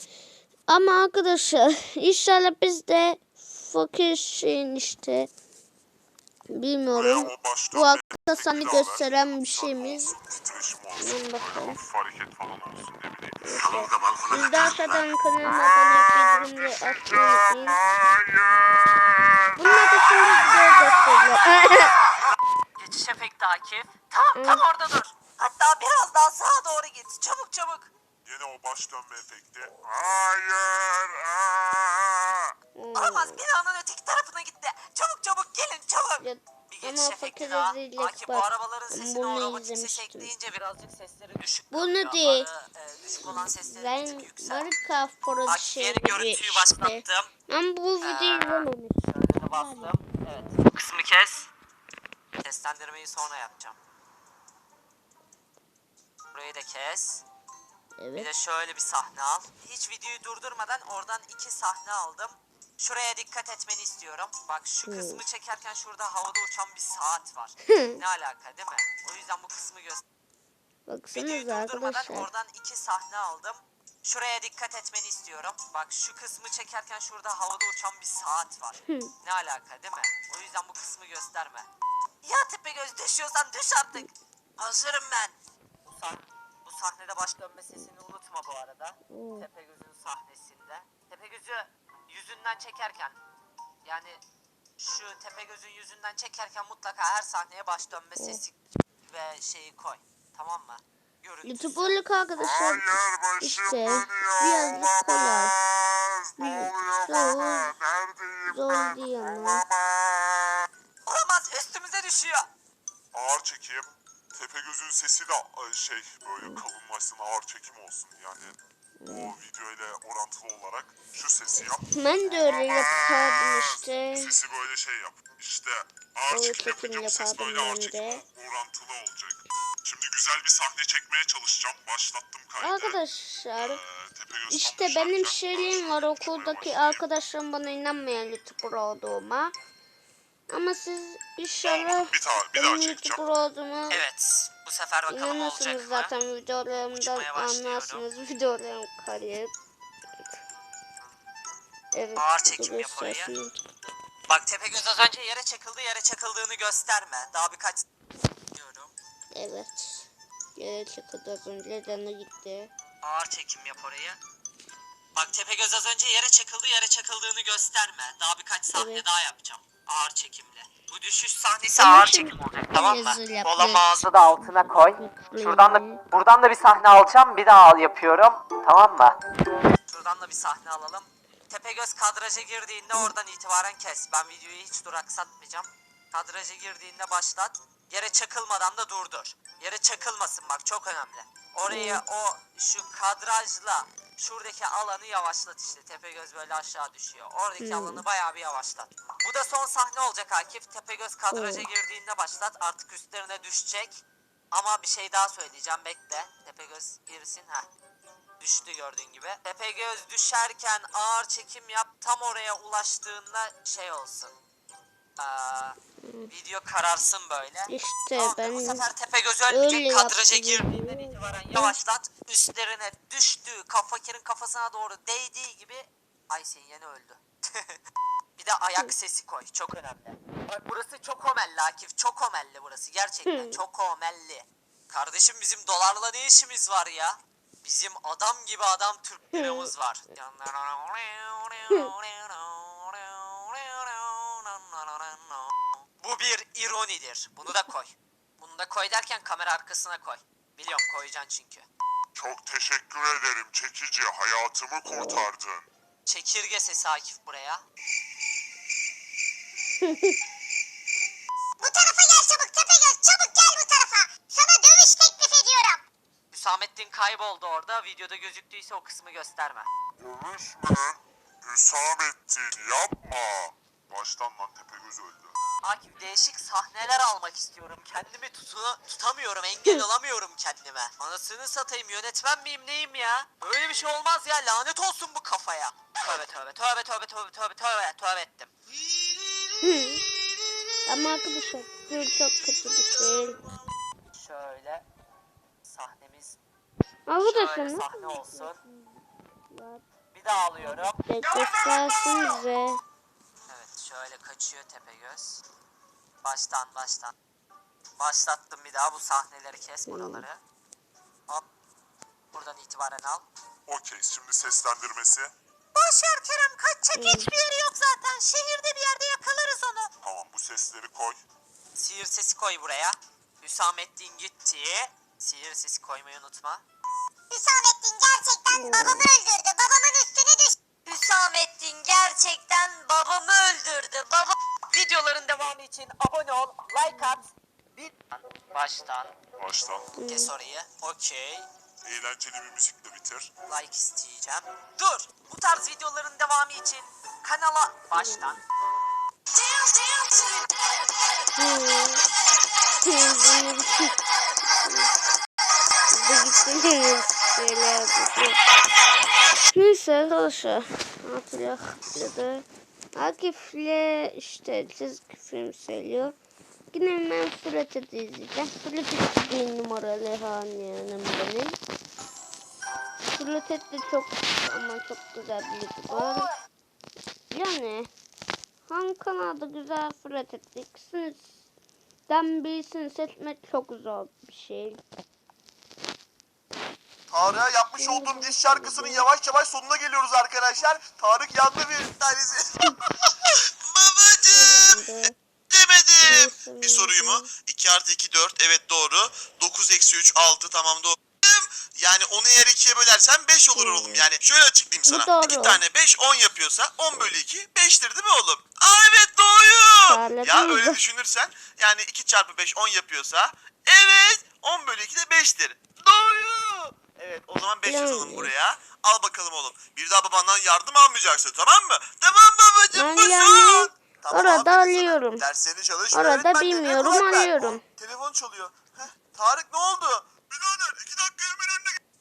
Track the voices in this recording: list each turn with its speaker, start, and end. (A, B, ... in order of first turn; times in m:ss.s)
0:00.7-0:05.3 A
0:06.5-0:10.2 A
0:06.9-0:14.9 B
0:11.0-0:11.8 A
0:13.4-0:17.8 A
0:15.9-0:19.4 B
0:19.6-0:21.9 A
0:22.8-0:27.9 C
0:24.4-0:24.6 A
0:28.2-0:32.5 B
0:32.8-0:33.4 A
0:32.9-0:44.7 C
0:36.2-0:40.3 A
0:41.7-0:42.5 A
0:43.2-0:49.0 A
0:45.5-0:47.3 C
0:48.0-0:51.5 C
0:49.6-0:49.9 A
0:52.4-0:53.8 C
0:56.3-0:57.2 C
0:58.0-0:58.3 A
0:58.1-1:10.0 C
1:04.8-1:05.2 A
1:07.7-1:08.0 A
1:10.9-1:12.3 A
1:11.1-1:21.7 C
1:22.2-1:33.2 C
1:29.1-1:29.5 A
1:33.8-1:34.2 C
1:34.8-1:38.6 C
1:39.1-1:42.0 C
1:41.4-1:45.6 A
1:42.4-1:50.5 B
1:46.4-1:47.8 A
1:48.5-1:49.7 A
1:51.1-1:52.5 C
1:53.1-2:13.0 B
1:59.0-1:59.4 A
2:02.0-2:04.4 A
2:06.3-2:08.2 A
2:12.6-2:13.8 A
2:13.6-2:17.0 B
2:14.5-2:19.5 A
2:20.5-2:24.0 A
2:21.6-2:23.2 B
2:23.9-2:26.1 C
2:25.1-2:29.5 A
2:27.0-2:28.0 C
2:31.9-2:33.5 A
2:32.2-2:33.3 C
2:34.3-2:37.8 C
2:38.5-2:38.9 C
2:39.3-2:42.7 A
2:43.0-2:44.2 C
2:45.2-2:59.2 C
2:48.7-2:49.0 A
2:51.8-2:56.0 A
2:59.9-3:27.7 C
3:11.7-3:12.0 A
3:17.6-3:18.0 A
3:21.3-3:21.7 A
3:28.4-3:34.4 C
3:35.2-3:35.8 C
3:36.0-3:36.3 A
3:36.3-3:47.8 C
3:37.7-3:38.9 A
3:39.5-3:41.8 A
3:48.4-4:11.7 C
3:53.3-3:53.6 A
3:59.3-3:59.7 A
4:12.2-4:15.7 B
4:16.1-4:17.6 C
4:19.8-4:20.2 A
4:21.6-4:25.8 D
4:26.3-4:29.7 C
4:30.0-4:35.4 B
4:35.6-4:48.5 C
4:49.6-4:50.0 A
4:50.9-4:53.4 A
4:54.1-4:54.9 C
4:55.6-4:56.4 C
4:57.1-4:59.0 A
4:57.2-4:58.6 C
4:59.5-4:59.8 A
5:00.1-5:01.0 C
5:00.6-5:02.8 A
5:03.5-5:05.4 C
5:06.2-5:07.1 C
5:08.0-5:10.4 C
5:09.9-5:10.2 A
5:12.3-5:13.3 C
5:13.7-5:15.3 B
5:15.8-5:19.8 D
5:16.9-5:17.4 A
5:20.0-5:21.2 B
5:21.8-5:26.6 C
5:27.3-5:30.6 D
5:28.5-5:29.1 A
5:30.9-5:39.1 C
5:39.4-5:39.9 B
5:40.0-5:40.3 A
5:40.0-5:41.5 C
5:41.8-5:43.3 B
5:43.5-5:48.4 C
5:48.0-5:48.2 A
5:49.3-5:50.5 C
5:51.4-5:52.0 A
5:52.8-5:54.0 A
5:54.5-5:54.9 A
5:55.9-5:58.4 A
5:59.5-6:06.2 A
6:06.7-6:11.6 A
6:13.1-6:16.3 A
6:17.3-6:17.9 A
6:18.7-6:21.3 A
6:22.1-6:24.8 A
6:27.1-6:34.8 E
6:27.8-6:29.0 A
6:34.3-6:35.2 A
6:35.5-7:11.8 E
6:36.0-6:37.3 A
6:43.5-6:44.1 A
6:44.9-6:45.6 A
6:49.9-6:50.8 A
6:57.7-6:58.3 A
7:02.8-7:05.2 A
7:05.9-7:07.6 A